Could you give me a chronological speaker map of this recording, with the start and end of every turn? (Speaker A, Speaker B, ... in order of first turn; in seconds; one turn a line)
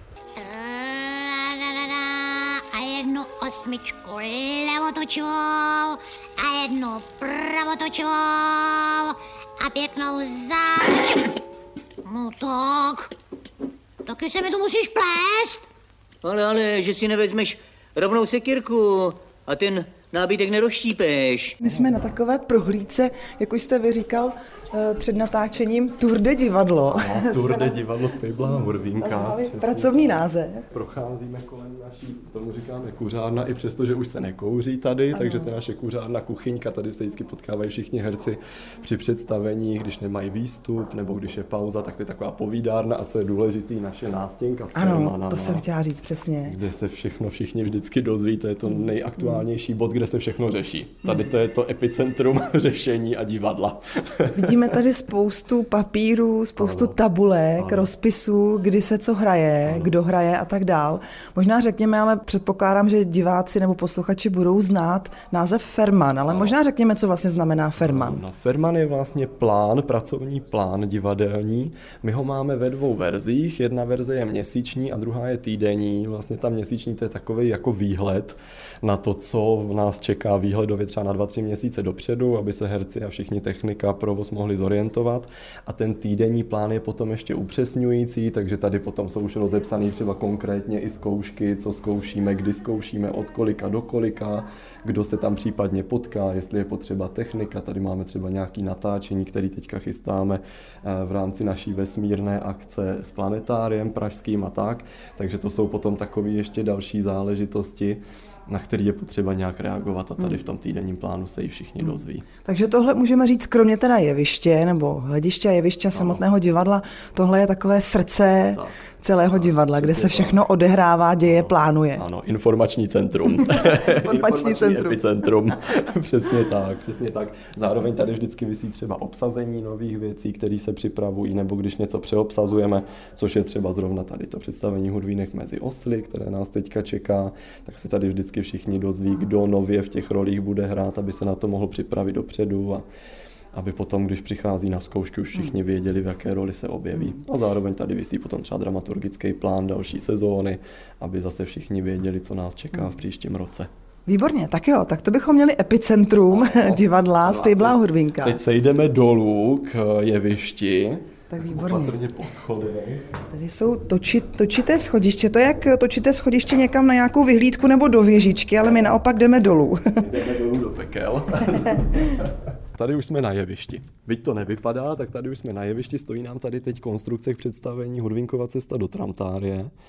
Speaker A: 0.3-11.3
Speaker A: 12.0-13.1
Speaker A: 14.1-15.6
Speaker B: 16.2-21.5
Speaker C: 21.6-27.7
Speaker D: 26.9-45.6
Speaker C: 28.9-30.7
Speaker C: 35.1-35.5
Speaker C: 44.7-46.6
Speaker D: 46.5-54.7
Speaker C: 54.3-68.2
Speaker D: 56.6-57.0
Speaker D: 57.6-57.9
Speaker D: 59.6-59.9
Speaker D: 66.3-66.5
Speaker D: 67.8-112.2
Speaker C: 112.4-122.0
Speaker D: 115.9-116.2
Speaker D: 119.3-120.4
Speaker D: 121.2-142.8
Speaker C: 123.5-125.0
Speaker D: 143.5-153.7
Speaker C: 154.1-158.4
Speaker D: 156.3-163.1
Speaker C: 161.3-161.9
Speaker C: 163.3-170.1
Speaker D: 170.0-179.7